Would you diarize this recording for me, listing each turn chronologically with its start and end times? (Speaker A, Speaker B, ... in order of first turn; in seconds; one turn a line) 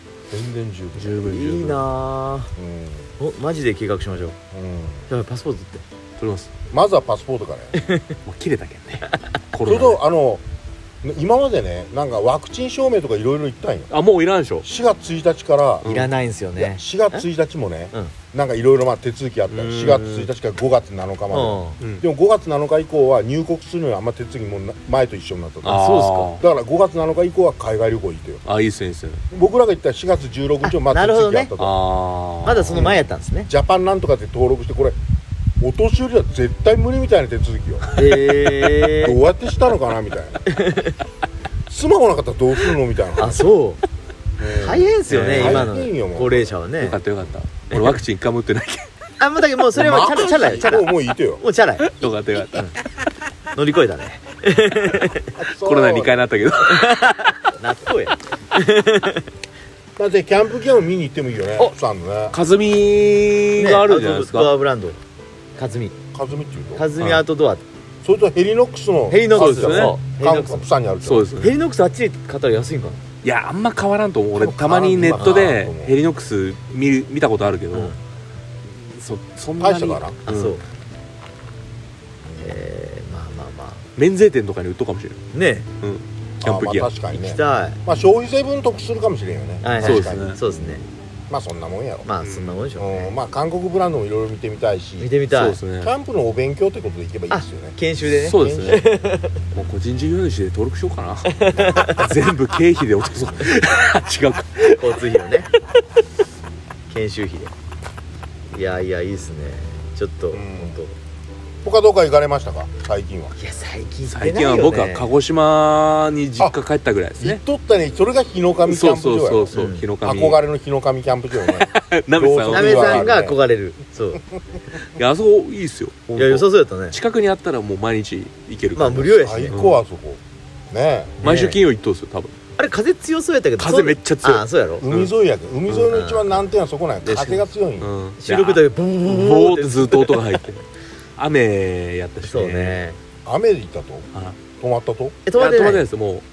Speaker A: 0.3-1.1
Speaker B: 0.9-1.9
Speaker C: 1.2-2.5
Speaker A: 2.5-3.1
Speaker C: 3.2-4.4
Speaker A: 4.5-5.1
Speaker C: 5.1-5.8
Speaker B: 6.2-6.5
Speaker A: 6.7-7.8
Speaker C: 7.8-8.1
Speaker B: 8.2-10.0
Speaker A: 9.6-10.4
Speaker A: 11.0-13.9
Speaker B: 13.9-14.7
Speaker A: 14.6-15.9
Speaker B: 15.8-16.1
Speaker C: 15.8-17.2
Speaker A: 16.6-25.8
Speaker B: 19.5-20.3
Speaker C: 21.3-21.8
Speaker B: 25.6-26.4
Speaker C: 25.6-26.4
Speaker A: 26.4-28.4
Speaker B: 28.4-29.2
Speaker A: 29.3-31.7
Speaker C: 30.6-31.5
Speaker B: 31.6-32.9
Speaker C: 32.4-33.5
Speaker A: 32.6-35.0
Speaker A: 35.6-37.9
Speaker C: 38.0-39.2
Speaker A: 38.9-40.4
Speaker C: 40.5-41.0
Speaker A: 41.7-43.4
Speaker C: 43.2-43.8
Speaker A: 44.4-46.6
Speaker C: 44.6-47.0
Speaker B: 45.1-45.7
Speaker B: 46.8-48.9
Speaker C: 47.7-48.0
Speaker C: 49.2-52.8
Speaker A: 49.7-51.4
Speaker B: 51.8-52.7
Speaker C: 53.5-55.3
Speaker A: 55.4-56.2
Speaker B: 55.5-57.1
Speaker C: 56.6-59.3
Speaker A: 60.0-62.4
Speaker B: 62.3-64.5
Speaker C: 63.6-65.0
Speaker C: 65.6-65.9
Speaker A: 66.1-66.9
Speaker C: 66.8-67.6
Speaker B: 67.0-67.2
Speaker A: 68.0-71.4
Speaker C: 69.1-70.7
Speaker B: 69.3-70.0
Speaker B: 71.0-71.5
Speaker C: 71.4-73.0
Speaker B: 73.2-78.0
Speaker A: 74.3-75.9
Speaker C: 75.2-75.5
Speaker C: 77.7-78.0
Speaker B: 78.6-80.6
Speaker A: 79.6-80.2
Speaker C: 80.2-80.6
Speaker C: 82.4-83.8
Speaker B: 84.0-85.2
Speaker C: 85.3-85.7
Speaker B: 85.8-86.9
Speaker A: 86.4-90.8
Speaker C: 87.1-87.8
Speaker C: 89.6-90.8
Speaker B: 89.8-90.4
Speaker A: 91.3-92.1
Speaker C: 92.0-93.1
Speaker B: 92.2-92.7
Speaker A: 92.8-95.1
Speaker C: 95.0-95.6
Speaker B: 95.3-95.9
Speaker A: 95.8-97.8
Speaker C: 97.3-99.4
Speaker B: 98.1-98.8
Speaker A: 98.3-98.8
Speaker B: 99.5-104.8
Speaker C: 101.3-102.0
Speaker C: 104.7-105.5
Speaker C: 106.9-107.5
Speaker C: 108.5-111.0
Speaker A: 110.3-110.8
Speaker A: 111.6-113.3
Speaker C: 113.4-115.1
Speaker B: 114.1-117.4
Speaker A: 117.2-123.4
Speaker B: 118.7-120.4
Speaker C: 119.5-119.9
Speaker B: 121.4-123.1
Speaker C: 122.5-124.2
Speaker B: 124.9-129.8
Speaker C: 126.1-127.0
Speaker C: 128.7-129.6
Speaker A: 129.2-131.2
Speaker C: 131.2-131.6
Speaker B: 131.2-132.3
Speaker C: 132.6-134.8
Speaker B: 133.6-135.1
Speaker A: 134.8-137.9
Speaker C: 135.7-136.5
Speaker C: 137.0-137.4
Speaker B: 137.8-140.6
Speaker C: 138.2-140.4
Speaker B: 141.2-142.8
Speaker C: 142.2-143.0
Speaker A: 143.2-145.2
Speaker C: 145.2-145.8
Speaker B: 145.4-146.2